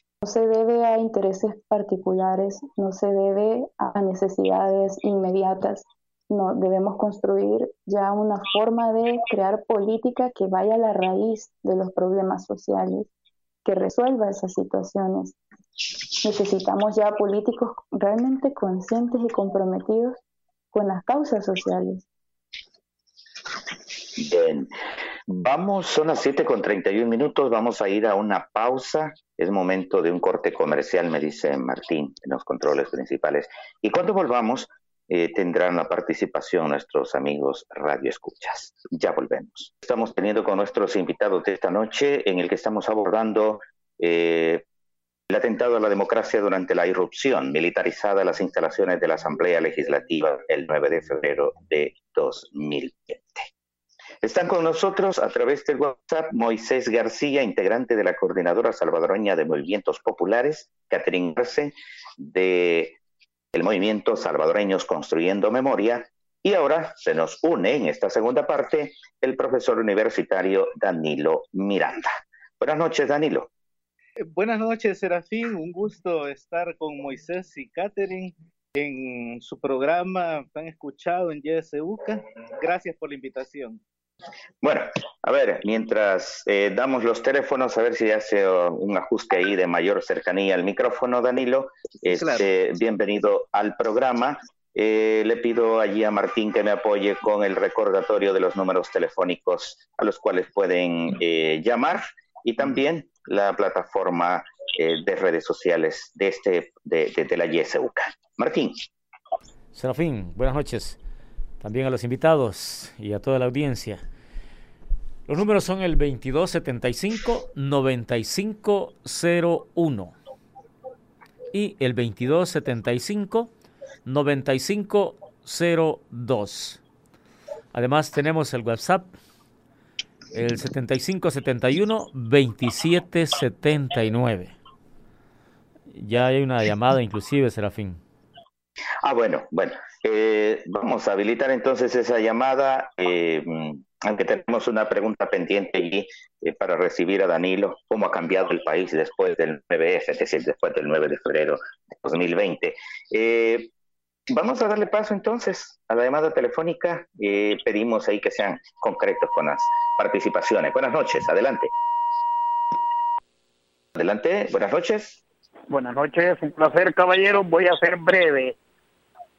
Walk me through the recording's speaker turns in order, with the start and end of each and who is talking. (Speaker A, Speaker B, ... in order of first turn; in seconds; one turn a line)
Speaker A: 0.2-13.1
Speaker A: 13.6-15.3
Speaker A: 16.2-20.2
Speaker A: 20.7-22.0
Speaker B: 24.2-24.7
Speaker B: 25.3-44.6
Speaker B: 45.3-53.5
Speaker B: 54.2-63.0
Speaker B: 63.5-73.5
Speaker C: 74.2-83.8
Speaker B: 84.6-108.8
Speaker C: 92.0-92.5
Speaker D: 109.7-111.0
Speaker D: 111.6-114.0
Speaker D: 115.3-120.1
Speaker D: 121.5-123.5
Speaker D: 124.0-126.8
Speaker D: 127.7-129.1
Speaker D: 130.3-134.6
Speaker D: 135.9-138.0
Speaker B: 139.0-153.7
Speaker B: 154.3-161.7
Speaker B: 163.9-165.2
Speaker E: 165.7-168.6